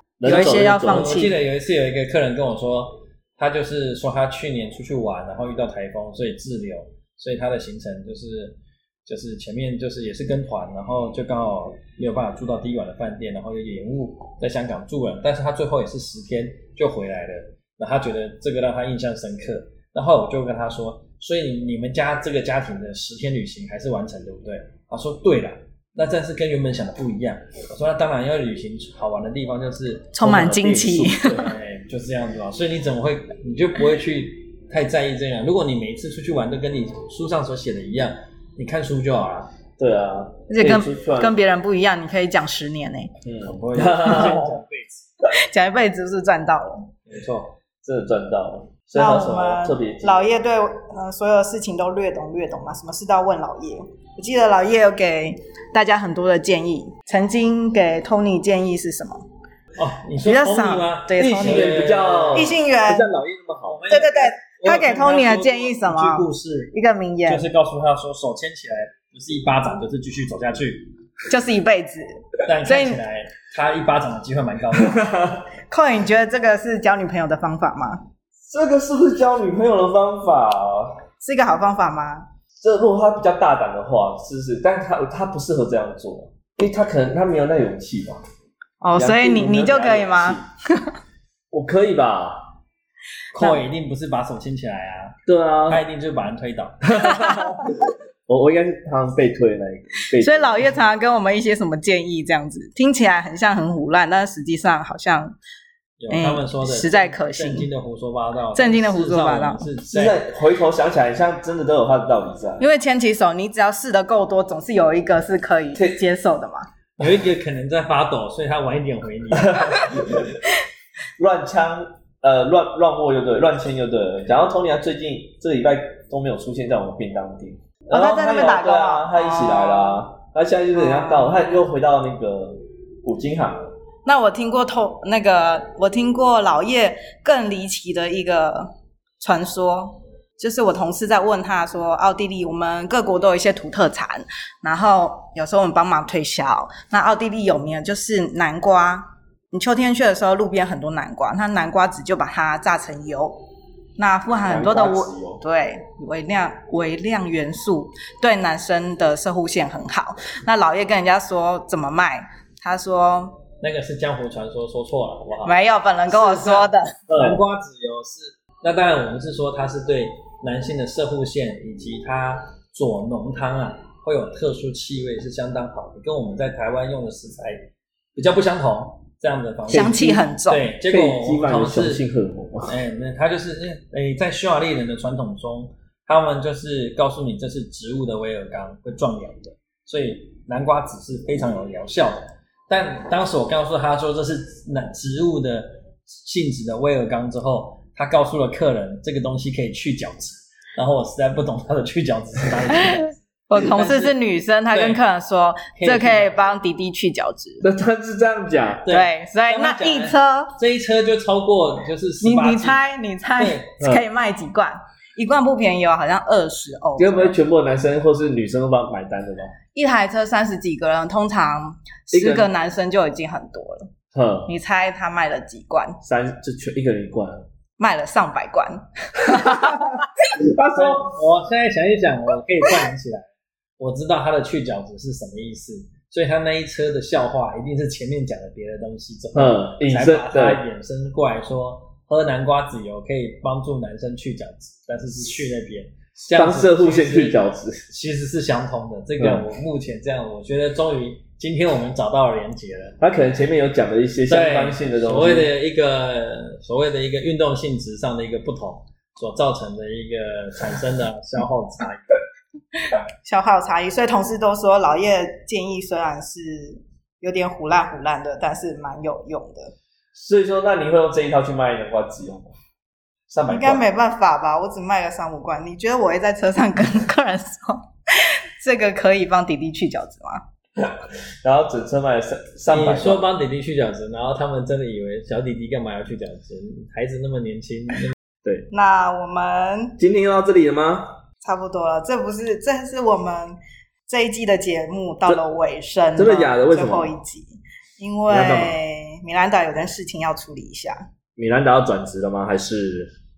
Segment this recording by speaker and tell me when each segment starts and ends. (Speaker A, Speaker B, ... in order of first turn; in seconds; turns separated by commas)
Speaker A: 0.2-1.2, Speaker B: 0.2-1.3, Speaker C: 0.4-30.1, Speaker B: 30.1-31.4, Speaker A: 30.2-31.5, Speaker C: 31.3-39.5, Speaker A: 39.8-41.3, Speaker B: 40.5-43.1, Speaker A: 43.2-44.5, Speaker C: 43.4-45.1, Speaker B: 45.3-46.9, Speaker C: 47.1-47.5, Speaker A: 47.8-50.2, Speaker B: 48.9-59.2, Speaker C: 59.8-62.5, Speaker B: 60.2-61.7, Speaker A: 61.1-63.8, Speaker B: 62.3-63.1, Speaker C: 63.7-66.7, Speaker B: 63.9-67.4, Speaker C: 67.2-70.9, Speaker B: 71.3-73.0, Speaker C: 72.5-75.3, Speaker A: 74.7-75.4, Speaker B: 75.7-78.0, Speaker A: 78.5-81.0, Speaker B: 81.2-82.2, Speaker A: 82.6-88.2, Speaker B: 88.8-90.9, Speaker A: 88.9-90.5, Speaker A: 91.5-92.4, Speaker C: 93.3-95.2, Speaker A: 95.3-95.8, Speaker C: 95.7-97.5, Speaker A: 96.9-100.7, Speaker B: 100.2-105.3, Speaker C: 106.0-110.2, Speaker B: 106.1-107.7, Speaker B: 108.5-109.6, Speaker A: 109.9-112.6, Speaker B: 112.6-116.7, Speaker A: 115.7-116.0, Speaker C: 117.0-120.2, Speaker A: 119.4-120.3, Speaker A: 121.2-133.7, Speaker B: 127.9-130.0, Speaker B: 130.7-131.6, Speaker B: 134.0-153.4, Speaker B: 154.0-163.4, Speaker A: 154.4-155.4, Speaker C: 163.6-165.6, Speaker B: 165.4-166.9, Speaker C: 166.1-182.0, Speaker A: 167.1-167.4, Speaker B: 179.7-180.7, Speaker A: 179.7-180.0, Speaker A: 180.9-182.8, Speaker C: 182.7-204.2, Speaker B: 202.7-207.7, Speaker C: 204.7-205.0, Speaker C: 205.8-206.4, Speaker A: 207.6-208.9, Speaker C: 208.8-212.8, Speaker B: 208.9-210.5, Speaker B: 212.2-217.3, Speaker C: 213.4-213.7, Speaker A: 217.0-219.6, Speaker B: 219.7-223.9, Speaker A: 222.1-222.5, Speaker A: 224.1-224.5, Speaker B: 224.5-226.0, Speaker A: 226.0-227.4, Speaker B: 227.8-230.0, Speaker A: 229.3-231.2, Speaker C: 230.7-233.3, Speaker C: 233.8-247.4, Speaker A: 239.3-240.6, Speaker A: 246.2-247.8, Speaker C: 247.9-253.0, Speaker A: 249.2-249.4, Speaker A: 253.0-255.5, Speaker C: 254.3-262.2, Speaker B: 263.2-269.7, Speaker A: 270.1-272.5, Speaker A: 273.3-273.8, Speaker B: 273.4-280.4, Speaker A: 280.8-283.2, Speaker C: 282.7-288.1, Speaker B: 288.7-290.0, Speaker A: 290.0-291.1, Speaker B: 291.4-301.0, Speaker A: 296.1-297.1, Speaker A: 298.3-298.7, Speaker A: 301.4-303.1